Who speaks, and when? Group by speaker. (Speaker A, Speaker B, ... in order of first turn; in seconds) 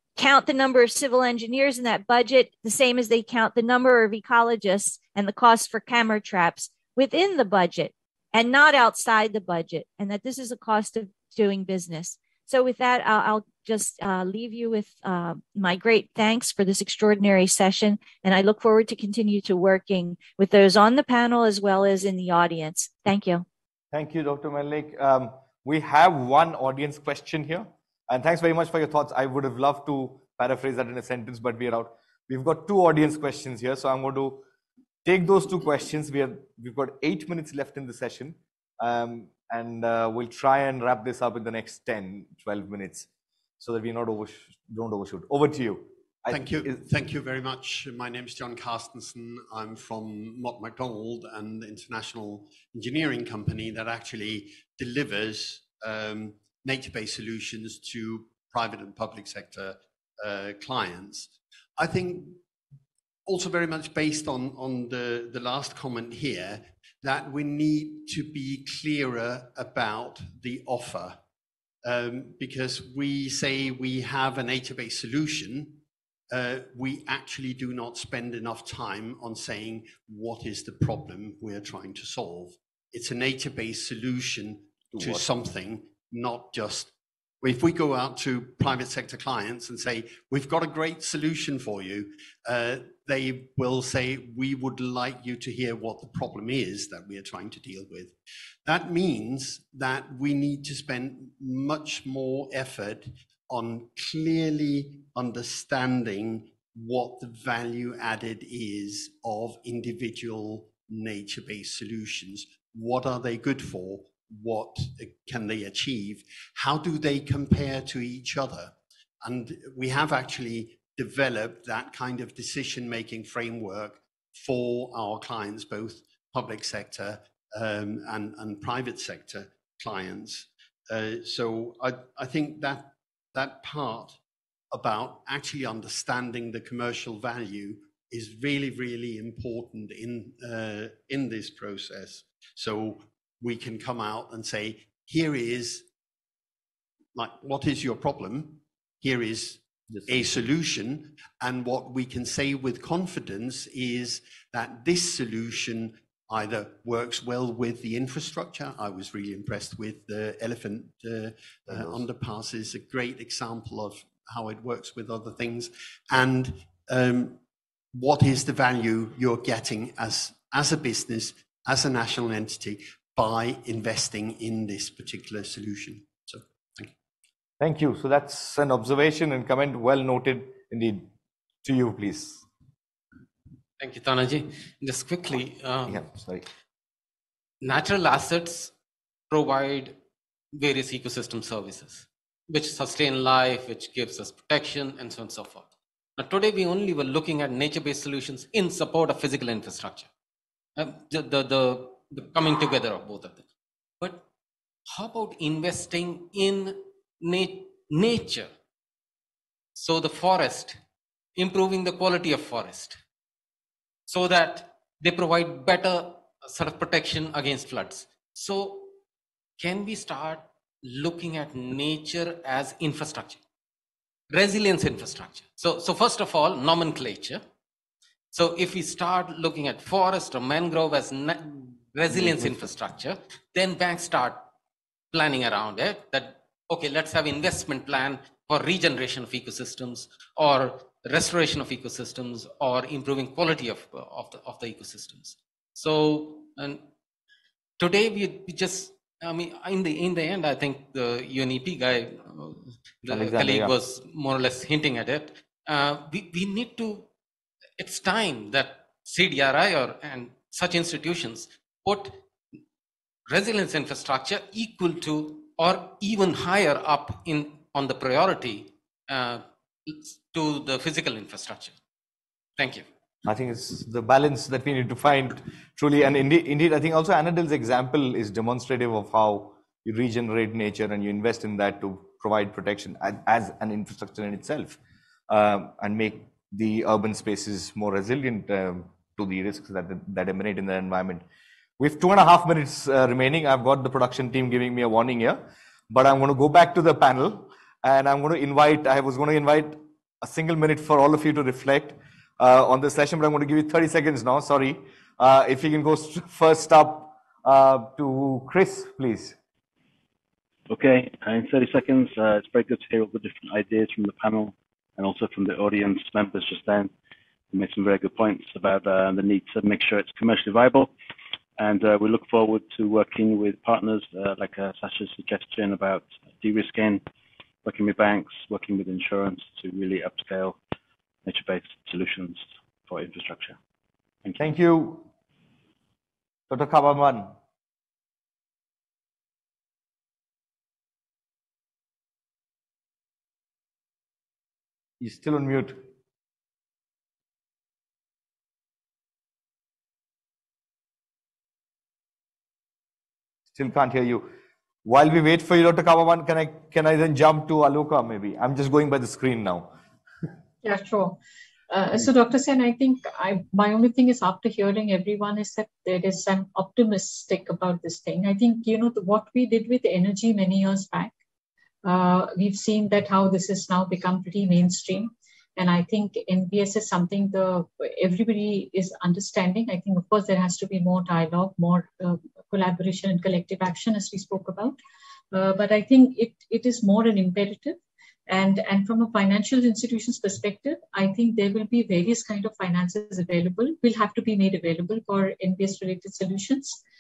Speaker A: 0.2-23.4
Speaker B: 23.9-34.4, 35.0-43.1, 43.6-46.8, 85.0-85.3, 149.9-150.3, 161.7-162.1, 177.6-181.1, 181.6-182.4, 185.8-186.5, 253.1-253.7, 273.2-284.8, 285.3-291.2, 291.8-309.4, 334.4-335.1, 336.5-337.4, 345.0-345.8, 353.5-359.7
Speaker C: 46.3-62.4, 63.2-71.2, 71.8-134.2, 134.7-145.9, 147.1-167.4, 167.9-176.9
Speaker D: 183.8-186.1, 187.6-188.7, 189.3-189.9, 190.5-200.1, 200.8-203.5, 204.0-204.2, 204.9-208.5, 209.7-210.8, 211.3-213.0, 214.1-218.9, 219.6-223.4, 224.3-227.4, 228.3-234.5, 235.1-246.8, 247.8-257.1, 257.8-262.2, 263.3-271.8, 272.6-272.9
Speaker E: 310.7-316.9, 317.5-320.9, 321.6-327.0, 327.6-330.6, 331.2-333.6
Speaker F: 360.6-361.2, 361.7-371.1, 371.8-384.8, 385.3-396.8